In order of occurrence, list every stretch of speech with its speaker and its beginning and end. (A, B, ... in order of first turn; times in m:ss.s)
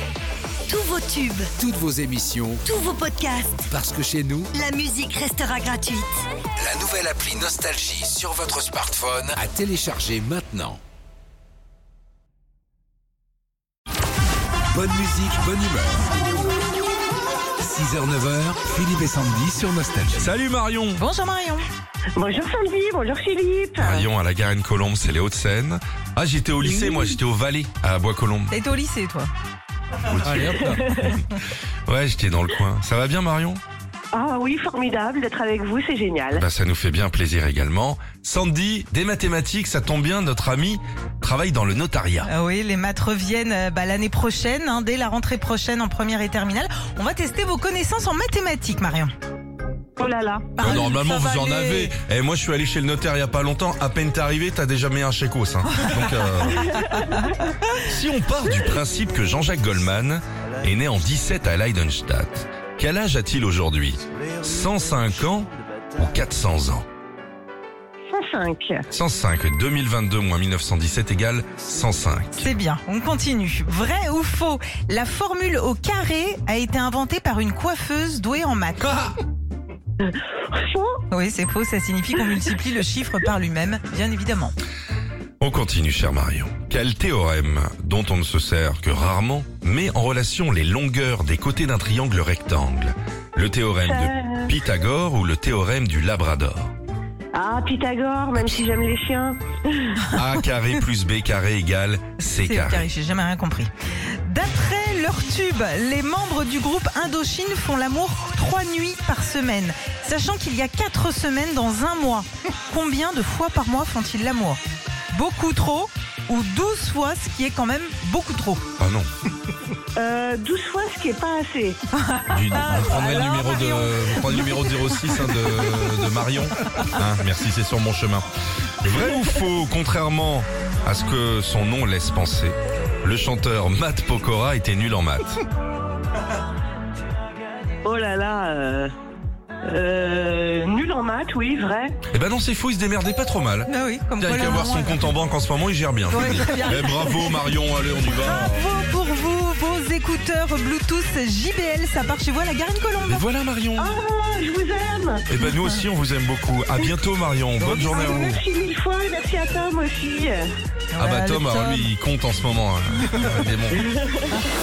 0:00.7-0:01.5 A
0:01.6-0:02.7 B
0:02.6-0:03.7 A
0:03.7-0:04.5 B
0:04.5-0:06.1 A
0:06.6-0:10.8 B
0:14.7-0:16.2 B
0:17.6-0:20.3 B
0:20.2-0:21.0 C
0:21.0-0:21.6 D
0:22.2-0:24.0 E
0:23.8-0:28.6 C
0:26.6-0:27.2 E
0:28.5-0:29.3 D
0:30.0-0:31.2 C
0:30.2-0:31.2 E
0:31.9-0:33.6 C
0:34.1-0:36.4 E
0:36.3-0:42.3 C
0:42.2-0:49.1 D
0:50.0-0:50.6 E
0:50.6-0:57.0 C
0:50.6-0:51.9 D
0:56.5-0:57.2 E
0:57.8-1:06.8 C
1:08.1-1:08.8 E
1:08.9-1:12.5 C
1:12.4-1:19.2 D
1:20.5-1:21.0 E
1:21.1-1:24.6 D
1:25.4-1:36.7 C
1:33.8-1:34.5 E
1:37.3-1:40.0 E
1:40.1-1:42.9 C
1:42.3-1:43.7 D
1:44.2-1:54.6 D
1:55.1-1:58.6 D
1:58.8-1:59.1 C
2:00.0-2:01.8 E
2:01.9-2:02.2 D
2:02.3-2:08.2 C
2:02.5-2:04.7 E
2:08.8-2:15.3 C
2:08.9-2:09.2 E
2:17.8-2:18.9 E
2:19.7-2:22.0 E
2:22.1-2:28.6 C
2:23.7-2:25.1 D
2:26.1-2:27.3 D
2:28.2-2:33.2 D
2:33.1-2:33.9 C
2:33.8-2:35.2 E
2:35.3-2:38.4 C
2:37.6-2:38.2 D
2:37.8-2:40.5 E
2:40.9-2:41.9 D
2:41.0-2:43.8 C
2:43.8-2:44.1 E